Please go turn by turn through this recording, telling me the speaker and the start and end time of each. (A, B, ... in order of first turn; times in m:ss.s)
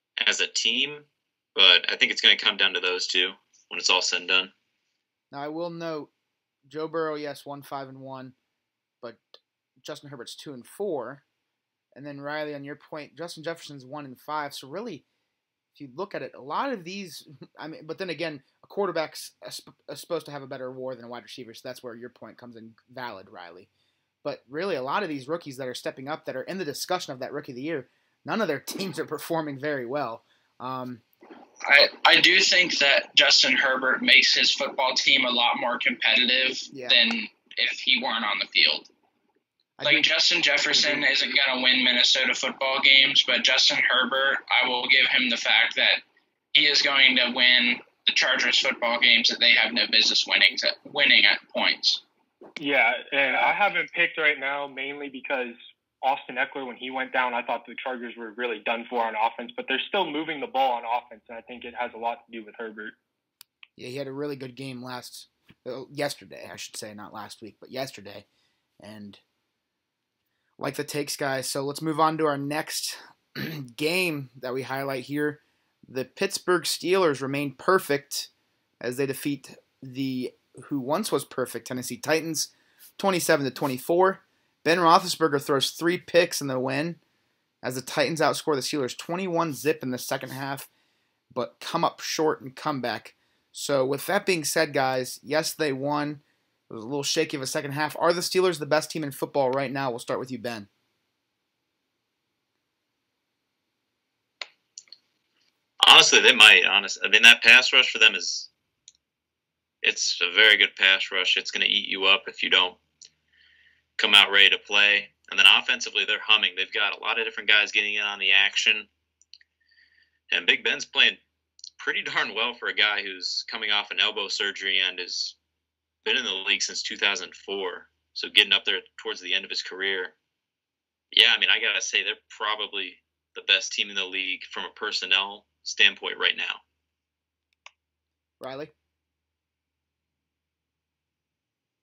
0:00.2-0:04.5 A
0:05.3-0:06.1 B
0:06.7-0:08.4 B
0:09.8-0:11.2 B
0:11.9-0:15.0 B
0:15.8-0:23.7 B
0:24.2-0:31.0 B
0:31.6-0:38.9 C
0:36.7-0:37.0 B
0:39.8-0:40.1 B
0:39.8-0:46.0 C
0:46.5-0:52.0 C
0:52.6-1:03.0 D
1:03.8-1:08.3 B
1:08.8-1:09.2 B
1:10.6-1:18.3 B
1:18.8-1:27.0 B
1:27.6-1:30.7 B
1:31.3-1:40.7 B
1:45.8-1:48.5 A
1:49.8-1:52.8 A
1:54.0-1:58.9 A
2:00.3-2:01.2 A
2:01.8-2:05.4 A
2:06.0-2:10.2 A
2:11.1-2:16.6 A
2:18.4-2:18.7 B